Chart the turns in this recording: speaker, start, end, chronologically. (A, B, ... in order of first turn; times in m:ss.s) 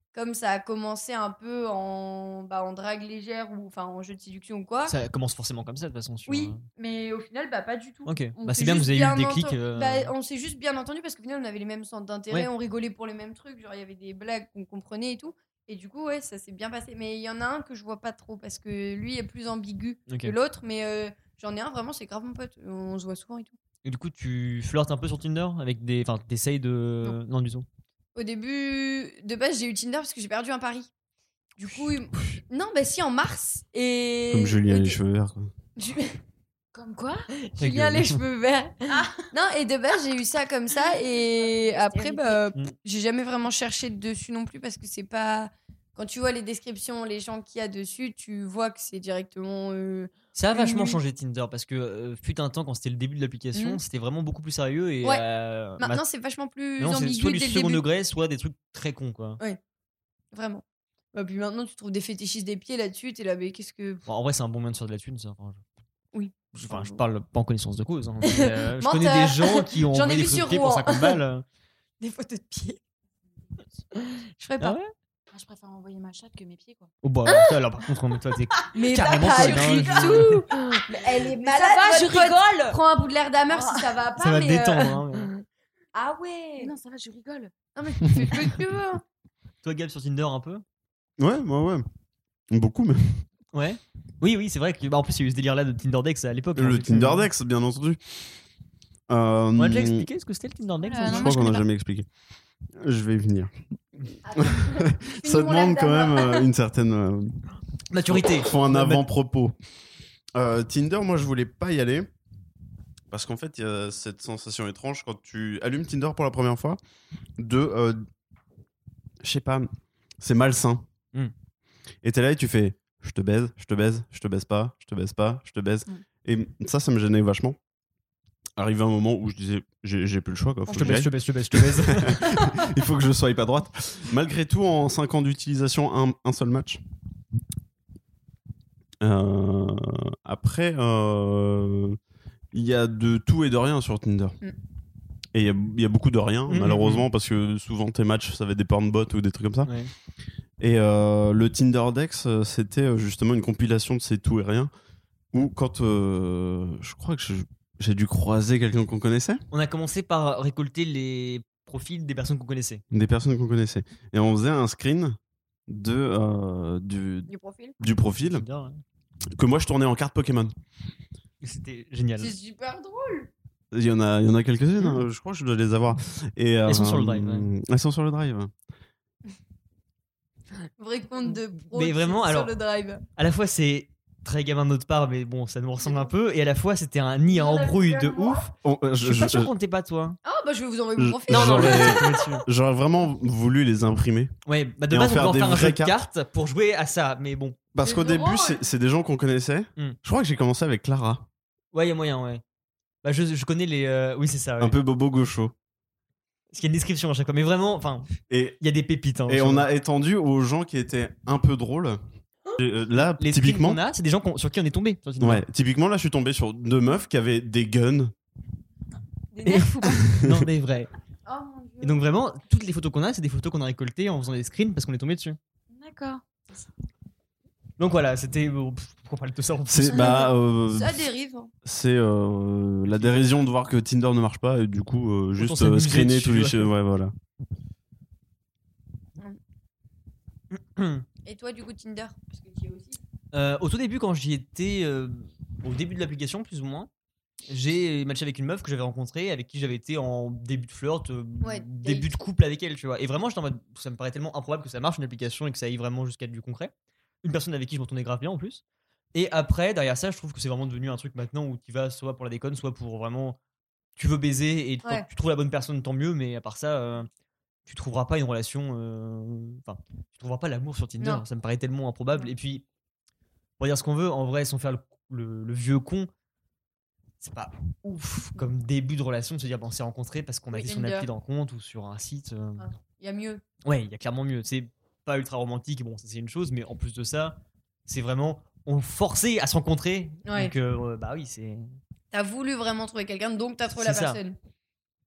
0:00.1-0:04.9 A
0:04.9-0:06.6 B
0:06.3-0:23.6 A
0:08.0-0:10.1 B
0:20.1-0:20.3 B
0:23.8-0:27.6 B
0:28.1-0:30.9 A
0:31.6-0:35.0 A
0:34.3-0:35.5 C
0:35.8-0:36.2 A
0:36.7-0:37.3 D
0:37.4-0:51.0 A
0:37.6-0:38.2 B
0:38.9-0:39.2 D
0:40.8-0:42.4 D
0:50.3-0:56.0 B
0:53.5-0:53.8 A
0:55.8-0:57.8 A
0:56.8-0:59.4 B
1:00.3-1:00.6 A
1:01.1-1:04.0 A
1:04.0-1:05.6 B
1:06.1-1:07.0 A
1:06.5-1:11.4 B
1:08.2-1:11.2 A
1:12.0-1:12.8 A
1:14.4-1:14.8 A
1:14.6-1:14.9 B
1:15.3-1:16.9 D
1:17.0-1:20.4 B
1:18.7-1:25.0 A
1:19.1-1:22.8 D
1:23.5-1:23.9 D
1:24.2-1:25.3 B
1:25.9-1:26.7 A
1:26.6-1:27.5 D
1:27.7-1:29.0 A
1:29.6-1:30.6 B
1:31.2-1:31.8 C
1:32.5-1:33.2 C
1:33.5-1:37.3 B
1:36.6-1:38.3 C
1:39.1-1:40.1 C
1:39.6-1:41.4 B
1:40.8-1:41.6 D
1:41.0-1:42.1 C
1:42.8-1:43.5 C
1:44.2-1:46.4 A
1:44.3-1:47.4 C
1:47.9-1:49.0 B
1:48.1-1:49.5 C
1:50.3-1:52.1 C
1:53.1-1:56.8 C
1:57.4-1:58.1 C
1:59.2-2:00.8 C
2:02.0-2:07.6 C
2:08.6-2:16.8 C
2:10.7-2:12.3 B
2:19.0-2:22.0 C
2:22.5-2:24.4 C
2:25.3-2:29.7 C
2:26.5-2:27.0 B
2:29.6-2:29.9 B
2:30.6-2:34.7 C
2:35.3-2:39.4 C
2:39.5-2:42.8 B
2:42.9-2:45.2 C
2:45.7-2:48.4 C
2:47.3-2:47.7 A
2:48.2-2:48.8 B
2:49.3-2:50.5 C
2:51.4-2:52.3 B
2:52.2-2:53.3 A
2:53.7-2:58.5 C
2:56.7-2:57.5 B
3:00.8-3:03.0 A
3:01.7-3:02.5 B
3:03.2-3:10.2 B
3:05.8-3:06.1 A
3:07.2-3:08.4 A
3:08.6-3:09.5 C
3:10.2-3:12.2 A
3:11.0-3:14.3 C
3:11.3-3:12.4 B
3:14.4-3:17.6 B
3:14.9-3:15.9 C
3:17.7-3:21.3 C
3:17.8-3:18.6 A
3:21.7-3:22.4 B
3:23.0-3:24.8 B
3:24.6-3:25.5 C
3:26.5-3:28.1 B
3:28.3-3:28.6 C
3:28.6-3:29.7 B
3:29.3-3:32.0 C
3:32.6-3:33.8 C
3:33.0-3:35.4 B
3:35.2-3:38.1 C
3:39.3-3:40.1 D
3:39.4-3:40.9 B
3:40.1-3:40.4 C
3:41.2-3:42.0 A
3:41.8-3:45.4 B
3:45.7-3:46.6 D
3:47.8-3:50.1 B
3:49.7-3:51.0 C
3:50.0-3:51.5 A
3:51.6-3:57.1 C
3:52.9-3:53.4 B
3:55.4-3:56.7 B
4:00.5-4:01.0 B
4:01.2-4:03.0 A
4:03.3-4:06.9 B
4:07.5-4:16.7 B
4:11.4-4:12.1 A
4:17.2-4:18.6 B
4:19.1-4:23.4 B
4:24.0-4:27.1 B
4:27.7-4:32.6 B
4:33.6-4:36.1 B
4:37.2-4:42.6 B
4:40.5-4:41.1 A
4:42.6-4:43.4 A
4:43.6-4:51.6 B
4:50.2-4:50.5 A
4:52.1-4:54.4 A
4:53.8-4:54.2 B